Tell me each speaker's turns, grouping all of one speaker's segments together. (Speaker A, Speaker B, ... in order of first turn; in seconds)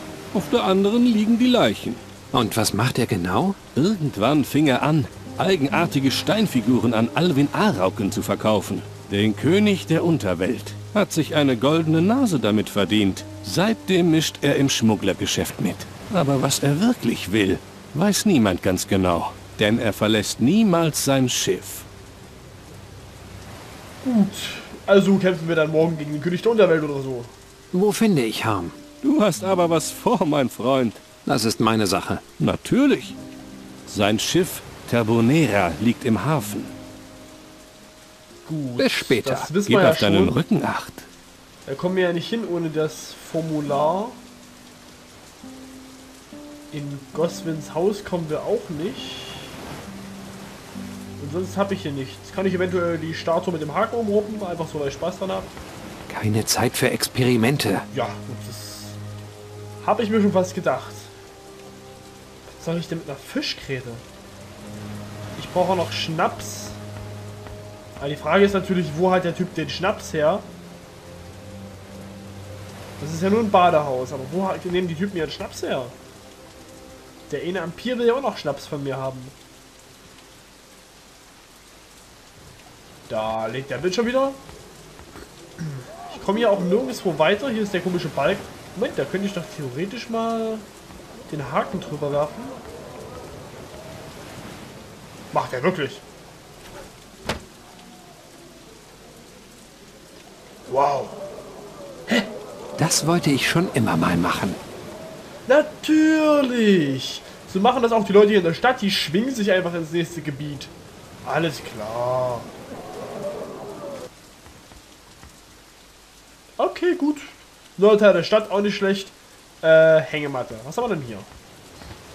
Speaker A: 0.3-2.0, 3.8-21.9, 29.0-31.0, 32.4-33.2, 33.9-36.7, 39.7-41.1
Speaker B: 2.3-3.6, 27.7-28.8, 31.2-32.2, 38.8-39.5, 56.1-57.9, 102.8-104.6
Speaker C: 24.0-27.3, 38.5-40.4, 41.7-44.2, 46.7-49.5, 51.2-55.5, 57.9-59.0, 59.8-61.1, 62.5-64.0, 65.4-66.8, 68.0-70.5, 73.0-76.0, 77.3-79.3, 83.1-84.4, 85.6-90.7, 91.3-92.6, 95.3-96.0, 100.7-101.2, 105.5-110.7, 111.2-112.5, 116.6-121.3